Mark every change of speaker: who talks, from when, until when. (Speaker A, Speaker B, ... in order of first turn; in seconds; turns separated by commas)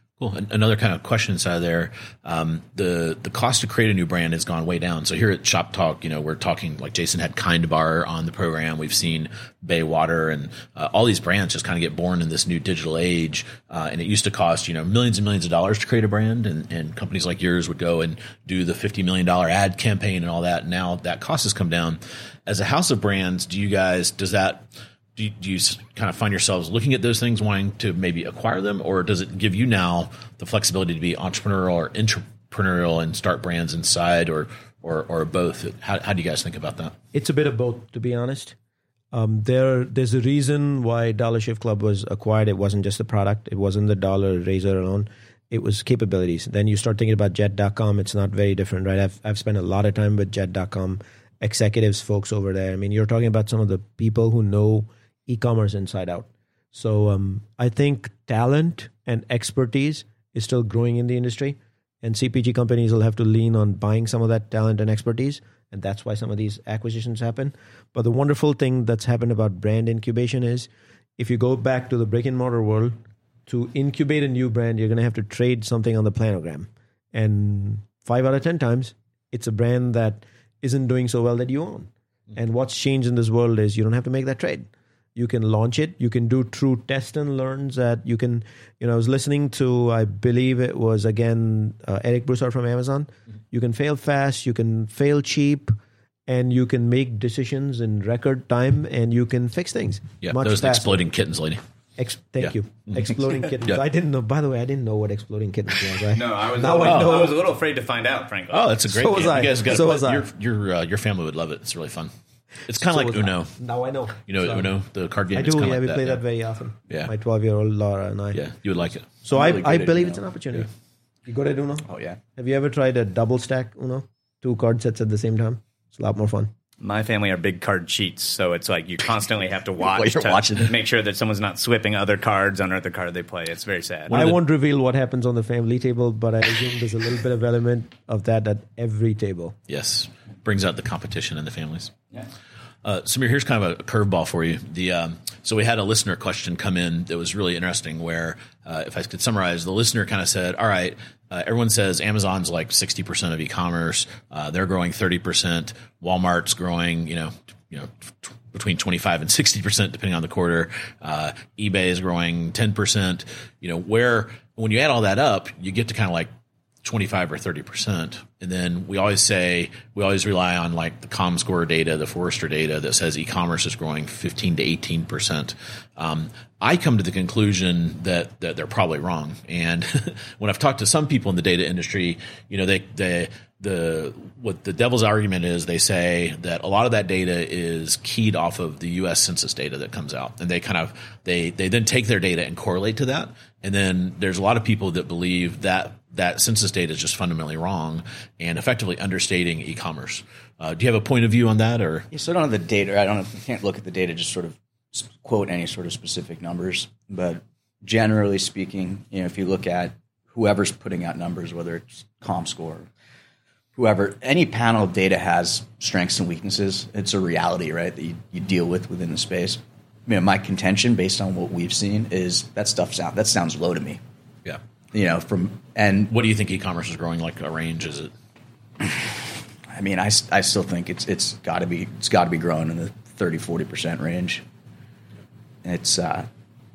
Speaker A: 0.2-36.9, Speaker B: 37.1-38.5, Speaker B: 39.1-72.9, Speaker B: 73.5-95.7, Speaker B: 96.3-101.0, Speaker A: 100.2-101.6, Speaker B: 102.0-107.4, Speaker A: 102.4-103.1, Speaker C: 106.1-108.7, Speaker A: 106.8-107.3, Speaker A: 108.5-112.1, Speaker B: 108.8-110.3, Speaker A: 112.7-113.5, Speaker B: 112.8-114.7, Speaker A: 114.2-116.2, Speaker B: 115.3-118.4, Speaker A: 118.3-119.1, Speaker B: 119.2-120.7, Speaker D: 119.3-120.2, Speaker B: 121.2-126.5, Speaker D: 121.9-122.2, Speaker C: 126.8-134.1, Speaker D: 129.8-130.7, Speaker A: 134.1-134.4, Speaker B: 134.1-139.6, Speaker A: 139.7-141.9, Speaker A: 142.8-166.3, Speaker A: 166.8-202.1, Speaker D: 202.1-212.9, Speaker D: 213.7-224.0, Speaker D: 224.9-226.1, Speaker A: 226.1-228.1, Speaker D: 228.8-234.4, Speaker D: 235.6-236.3